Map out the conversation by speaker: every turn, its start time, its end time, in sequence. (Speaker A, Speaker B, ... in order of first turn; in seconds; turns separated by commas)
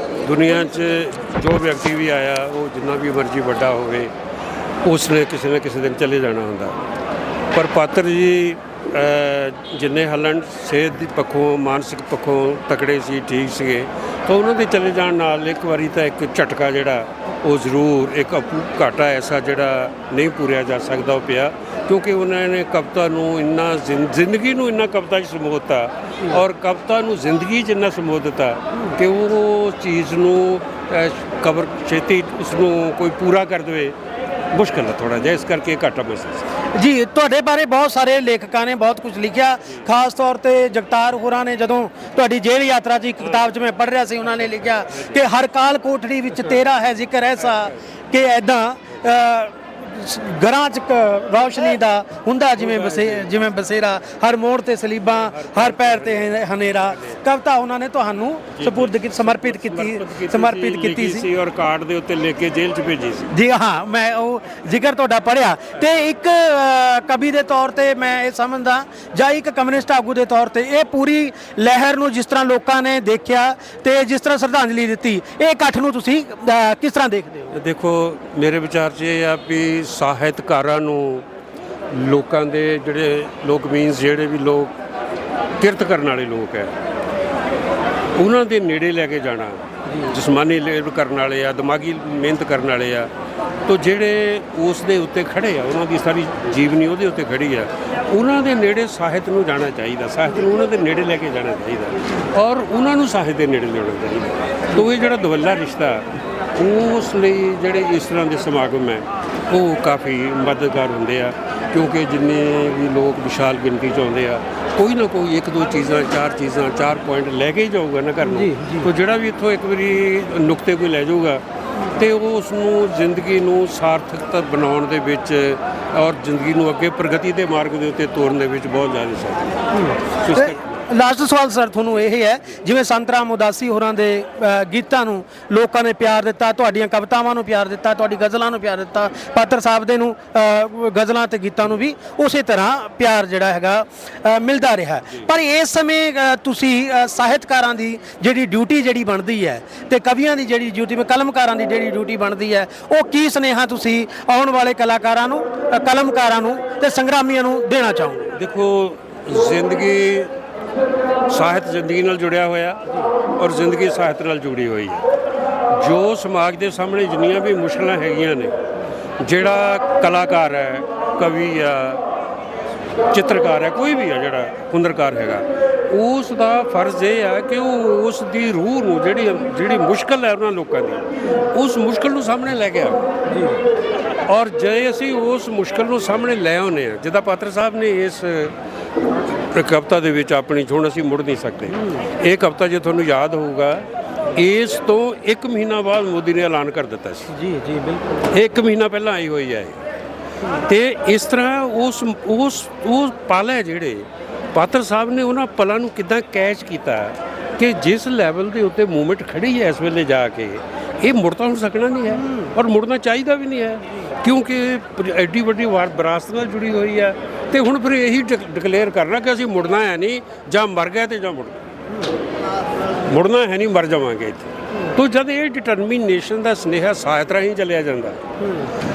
Speaker A: 0.2-4.1, Speaker A: 4.8-6.8, Speaker A: 7.5-34.0, Speaker A: 34.5-36.5, Speaker B: 36.7-61.3, Speaker A: 43.2-43.5, Speaker A: 44.4-45.2, Speaker A: 52.6-53.4, Speaker A: 55.1-57.2, Speaker A: 58.5-63.3, Speaker B: 63.3-77.5, Speaker A: 77.5-81.3, Speaker A: 81.9-84.7, Speaker A: 85.6-86.7, Speaker A: 88.2-93.1, Speaker A: 93.7-129.5, Speaker B: 118.2-118.9, Speaker B: 129.7-158.3, Speaker A: 130.2-130.6, Speaker A: 158.3-160.3, Speaker A: 161.3-162.8, Speaker A: 163.4-165.1, Speaker A: 165.7-168.6, Speaker A: 169.2-172.0, Speaker A: 173.1-183.0, Speaker B: 183.3-183.6, Speaker A: 184.3-188.6, Speaker A: 189.5-197.3, Speaker B: 197.3-198.3, Speaker A: 198.2-199.8, Speaker A: 200.5-221.6, Speaker A: 223.1-228.2